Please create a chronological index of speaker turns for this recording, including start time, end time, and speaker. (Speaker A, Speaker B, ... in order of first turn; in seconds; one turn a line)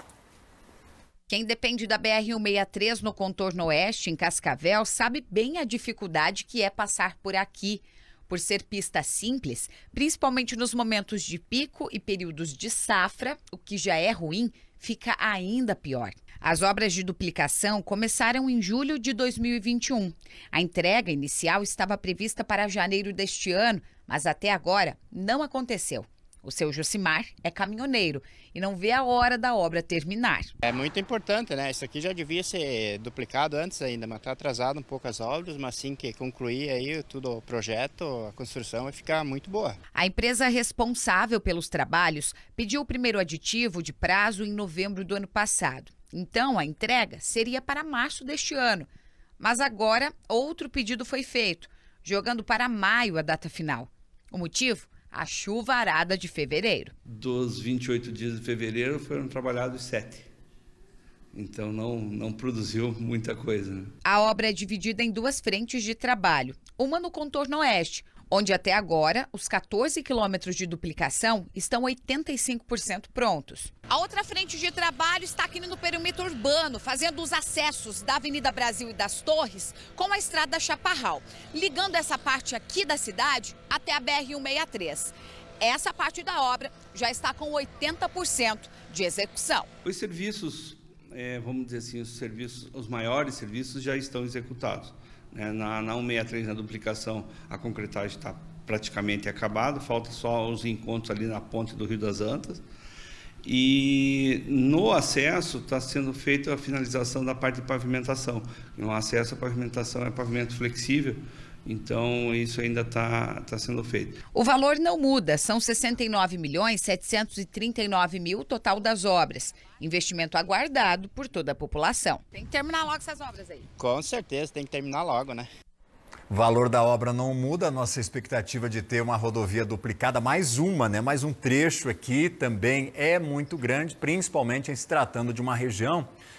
Speaker A: 1.3-30.5
Speaker B: 30.6-39.8
Speaker A: 39.9-48.9
Speaker A: 49.4-56.9
Speaker C: 57.0-60.3
Speaker C: 61.3-63.9
Speaker A: 64.0-89.7
Speaker C: 89.8-102.6
Speaker C: 103.4-114.2
Speaker A: 114.3-123.7
Speaker B: 123.8-125.5
Speaker D: 126.3-136.1